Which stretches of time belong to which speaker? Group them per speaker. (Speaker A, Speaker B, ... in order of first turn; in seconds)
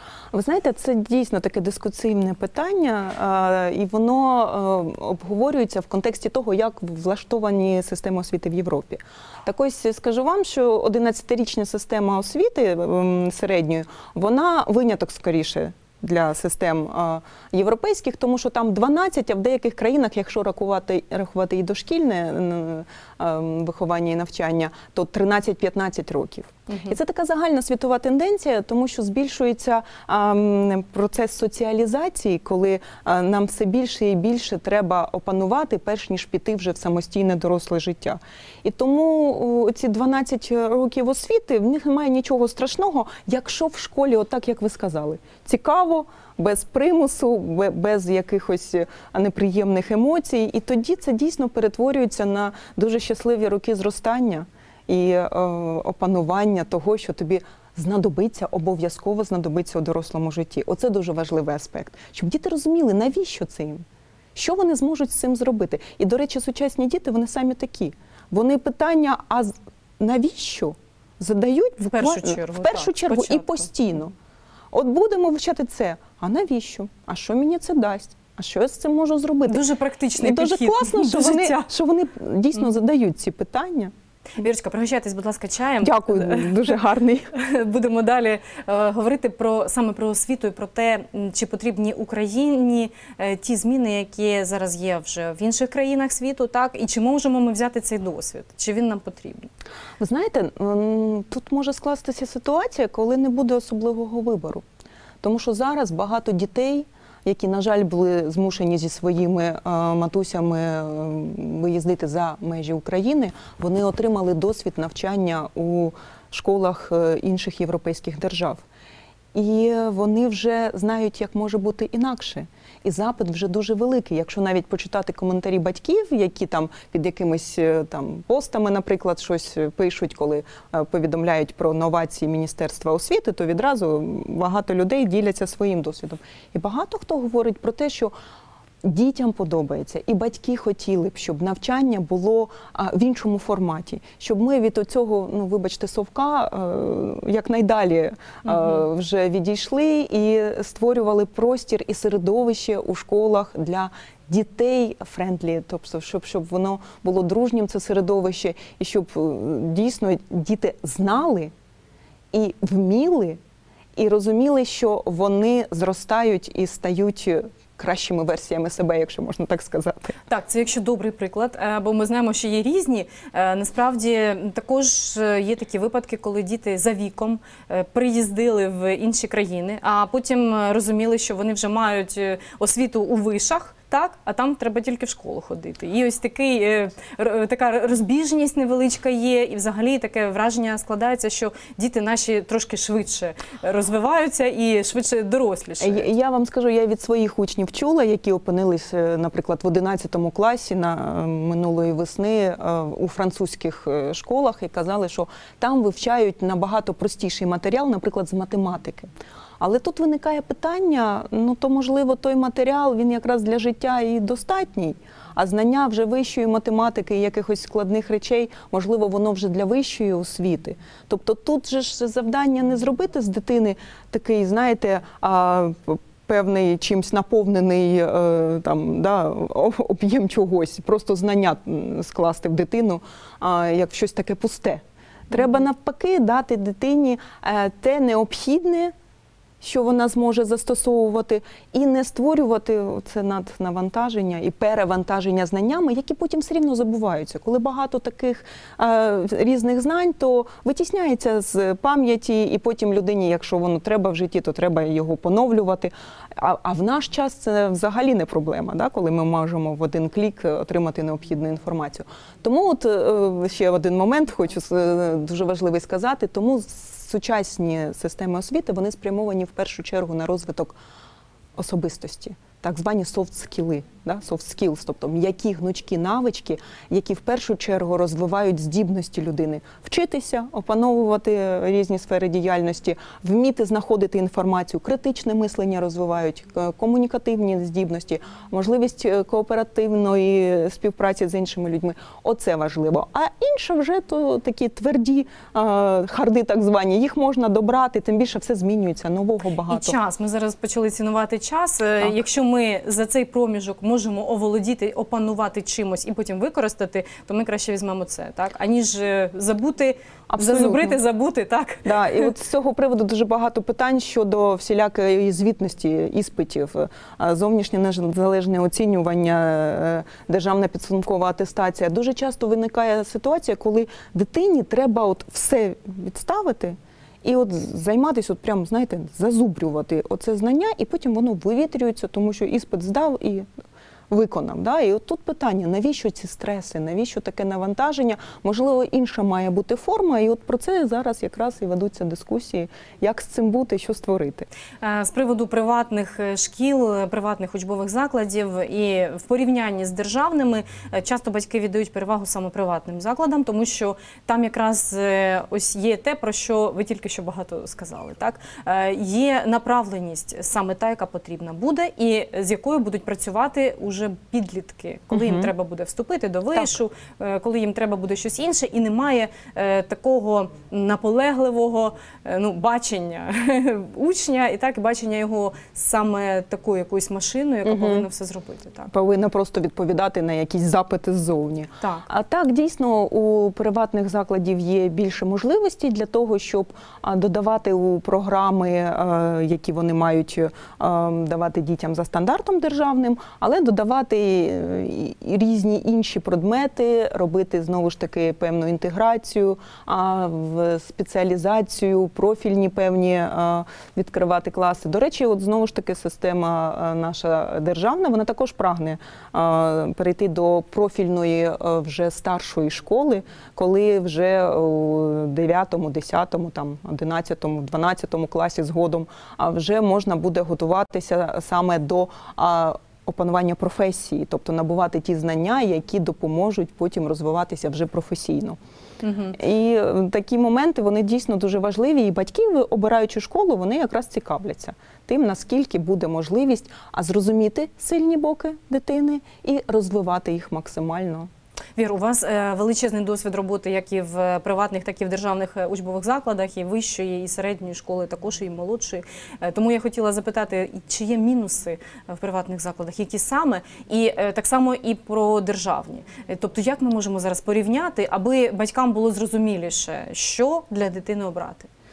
Speaker A: 0.3-63.8, 64.3-74.1, 74.7-79.6, 80.2-83.9, 85.8-87.3, 100.0-104.6, 105.2-118.6, 119.3-138.1, 138.8-161.5, 162.3-163.4, 163.9-170.2, 195.8-209.1, 209.6-238.9, 239.6-270.7, 271.5-300.0, 310.3-311.0, 311.8-333.5, 334.1-344.5, 365.1-365.5, 377.6-378.1, 378.9-428.6, 429.3-441.3
Speaker B: 26.7-26.9, 71.8-73.7, 79.5-81.7, 84.4-86.8, 87.3-99.5, 148.4-148.8, 170.3-196.1, 299.7-312.3, 344.8-378.9, 381.8-382.1, 429.0-429.4, 441.8-461.7